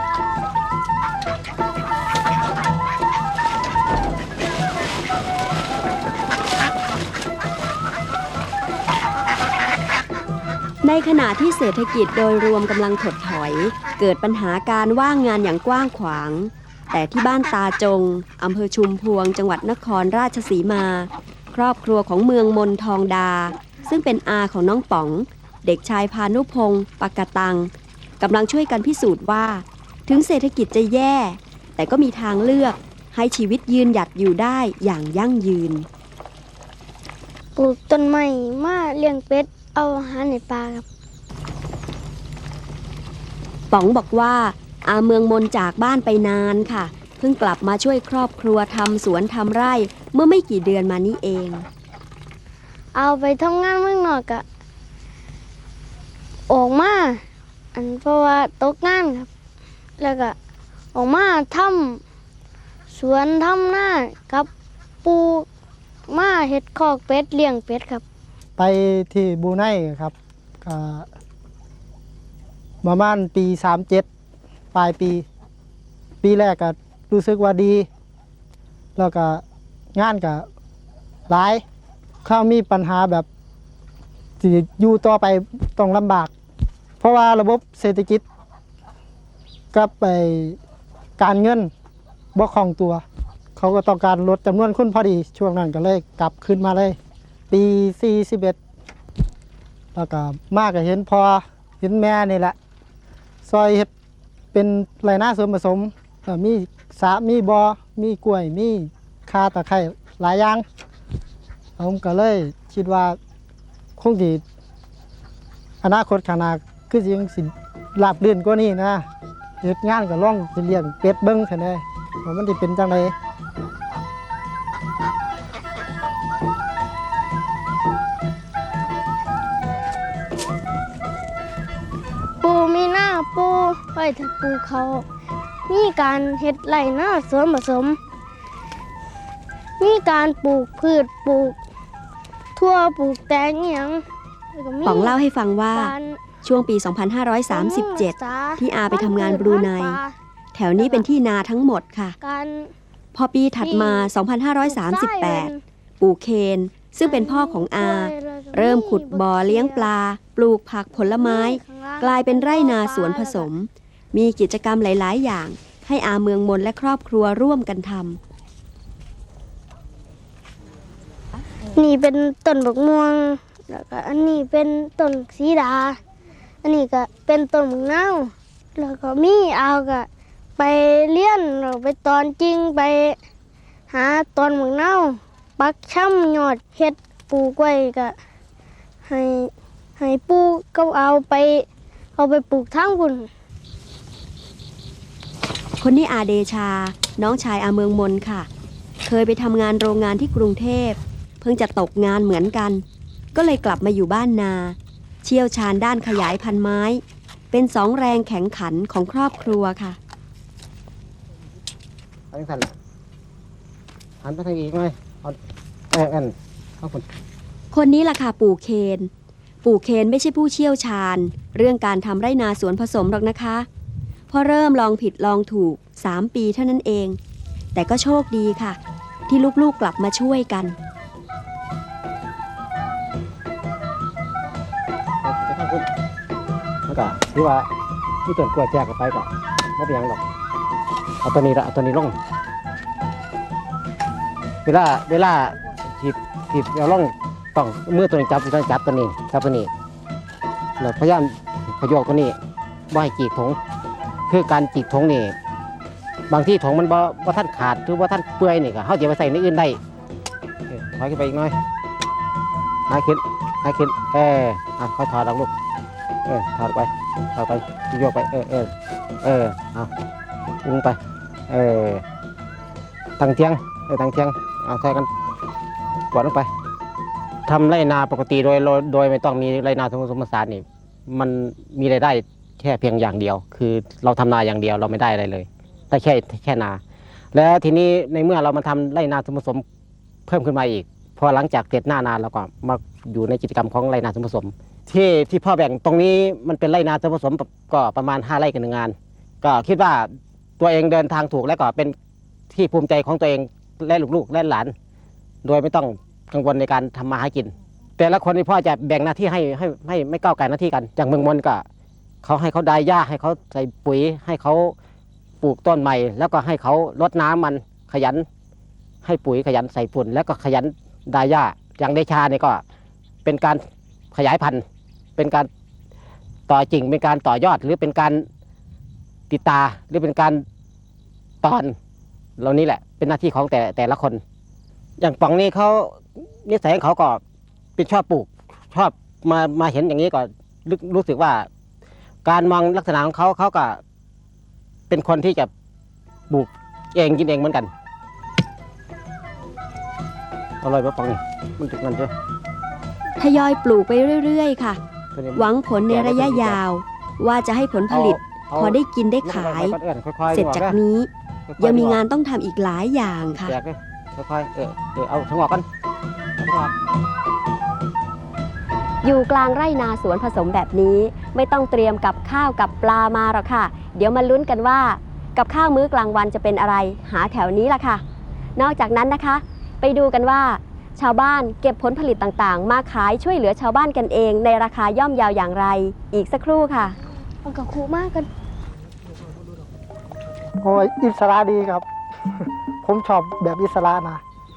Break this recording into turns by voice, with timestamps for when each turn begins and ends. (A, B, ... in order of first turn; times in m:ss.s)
0:10.8-0:35.9 A
0:37.6-0:40.8 B
0:43.7-0:51.7 A
0:53.0-0:54.4 B
0:56.5-0:57.2 B
0:57.8-0:59.3 B
1:00.0-1:00.4 B
1:00.9-1:02.0 B
1:02.9-1:04.5 B
1:05.0-1:05.5 B
1:06.1-1:08.0 B
1:08.6-1:11.1 C
1:12.8-1:14.1 C
1:14.7-1:15.3 C
1:16.2-1:17.9 C
1:19.0-1:19.4 C
1:19.9-1:20.5 C
1:21.3-1:21.6 C
1:22.2-1:23.3 C
1:24.4-1:26.3 C
1:27.0-1:28.2 C
1:29.7-1:30.6 C
1:31.2-1:31.7 C
1:32.4-1:33.0 C
1:33.6-1:37.0 C
1:37.5-1:38.6 C
1:39.9-1:42.6 C
1:43.4-1:43.9 C
1:44.5-1:50.6 C
1:51.8-1:53.2 C
1:54.0-1:54.4 C
1:55.8-1:59.1 C
1:59.6-2:03.1 C
2:12.4-2:15.0 B
2:15.7-2:18.0 B
2:19.8-2:21.6 B
2:22.6-2:25.2 B
2:24.8-2:30.0 A
2:25.7-2:26.2 B
2:27.5-2:30.1 B
2:30.6-2:32.2 A
2:30.8-2:31.1 B
2:32.2-2:32.7 B
2:33.2-2:48.2 A
2:33.6-2:34.1 B
2:34.7-2:35.6 B
2:37.0-2:39.9 B
2:41.0-2:43.5 B
2:51.7-2:56.0 B
2:56.6-3:03.2 B
3:03.9-3:08.2 B
3:09.1-3:11.7 B
3:12.2-3:13.3 B
3:15.8-3:18.5 A
3:19.1-3:22.8 A
3:23.4-3:27.0 A
3:27.5-3:30.0 A
3:32.3-3:32.7 D
3:34.2-3:35.4 D
3:35.9-3:37.0 D
3:37.7-3:39.1 A
3:39.6-3:43.7 A
3:44.3-3:47.2 A
3:47.8-3:50.8 A
3:55.2-3:55.9 D
3:56.9-3:57.7 D
3:58.3-4:00.2 D
4:01.2-4:02.2 D
4:04.7-4:09.7 D
4:10.8-4:12.4 D
4:12.9-4:13.6 D
4:14.3-4:15.3 D
4:16.3-4:19.8 D
4:20.7-4:21.6 D
4:22.9-4:25.5 D
4:26.3-4:28.7 D
4:29.2-4:29.9 D
4:30.6-4:31.0 D
4:31.5-4:32.0 D
4:33.2-4:35.1 D
4:36.1-4:36.5 D
4:37.5-4:46.8 D
4:47.3-4:49.6 D
4:50.3-5:02.0 D
5:02.5-5:04.7 D
5:05.4-5:11.6 D
5:12.2-5:14.8 D
5:15.4-5:18.2 D
5:19.0-5:22.6 D
5:23.2-5:23.6 D
5:24.1-5:24.6 D
5:25.2-5:25.5 D
5:26.5-5:28.2 D
5:29.3-5:30.4 D
5:31.4-5:31.8 D
5:32.4-5:34.2 D
5:35.0-5:37.2 D
5:37.8-5:41.5 D
5:42.2-5:43.8 D
5:44.9-5:45.5 D
5:46.3-5:47.7 D
5:50.6-5:52.1 D
5:53.2-5:54.8 A
5:55.2-5:56.6 D
5:55.4-5:59.8 A
5:57.9-6:00.8 D
6:00.3-6:03.6 A
6:01.5-6:02.0 D
6:03.4-6:05.7 D
6:06.4-6:06.7 D
6:09.0-6:18.0 A
6:18.6-6:27.0 A
6:27.4-6:28.3 B
6:30.6-6:31.9 C
6:32.8-6:34.2 C